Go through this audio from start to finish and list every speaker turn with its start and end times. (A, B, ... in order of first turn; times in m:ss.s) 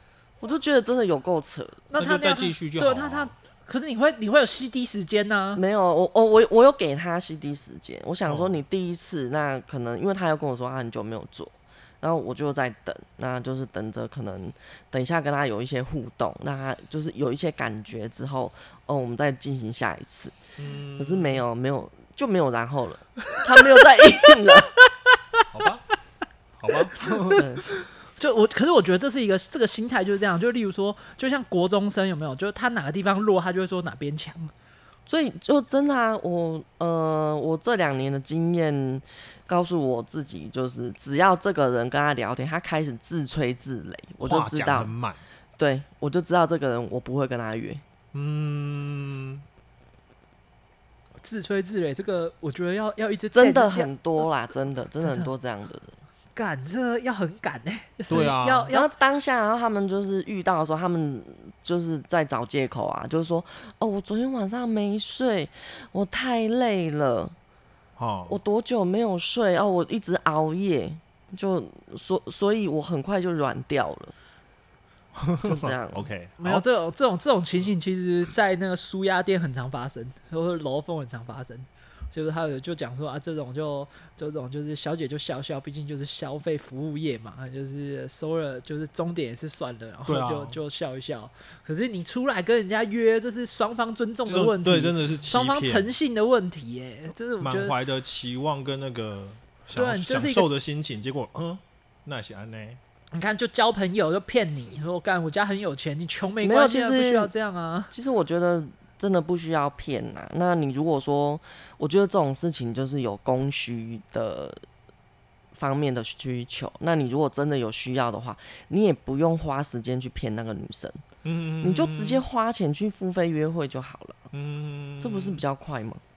0:00.4-0:01.9 A
0:01.9-0:05.6 B
0:02.0-0:03.3 C
0:05.5-0:20.4 A
0:08.2-0:08.6 C
0:20.6-0:21.4 C
0:21.0-0:24.8 A
0:25.5-0:25.8 C
0:26.6-0:27.4 C
0:26.8-0:34.5 B
0:27.3-0:27.6 A
0:35.1-0:44.9 A
0:44.2-0:45.2 C
0:45.6-0:47.8 A
0:48.1-0:49.4 C
0:51.2-0:53.9 B
0:53.3-0:55.9 A
0:55.0-0:55.3 B
0:56.4-0:58.9 B
0:58.1-0:58.7 C
0:58.1-1:07.3 A
1:08.0-1:08.4 C
1:08.3-1:14.1 A
1:15.1-1:16.6 C
1:15.4-1:16.1 A
1:16.4-1:37.8 B
1:30.0-1:30.6 C
1:34.2-1:35.9 C
1:37.4-1:42.8 C
1:39.7-1:40.6 B
1:43.1-1:47.9 B
1:46.4-1:47.3 A
1:47.9-1:54.6 A
1:55.5-2:01.0 A
2:01.2-2:02.2 C
2:01.6-2:04.3 A
2:04.3-2:05.4 C
2:05.0-2:06.0 A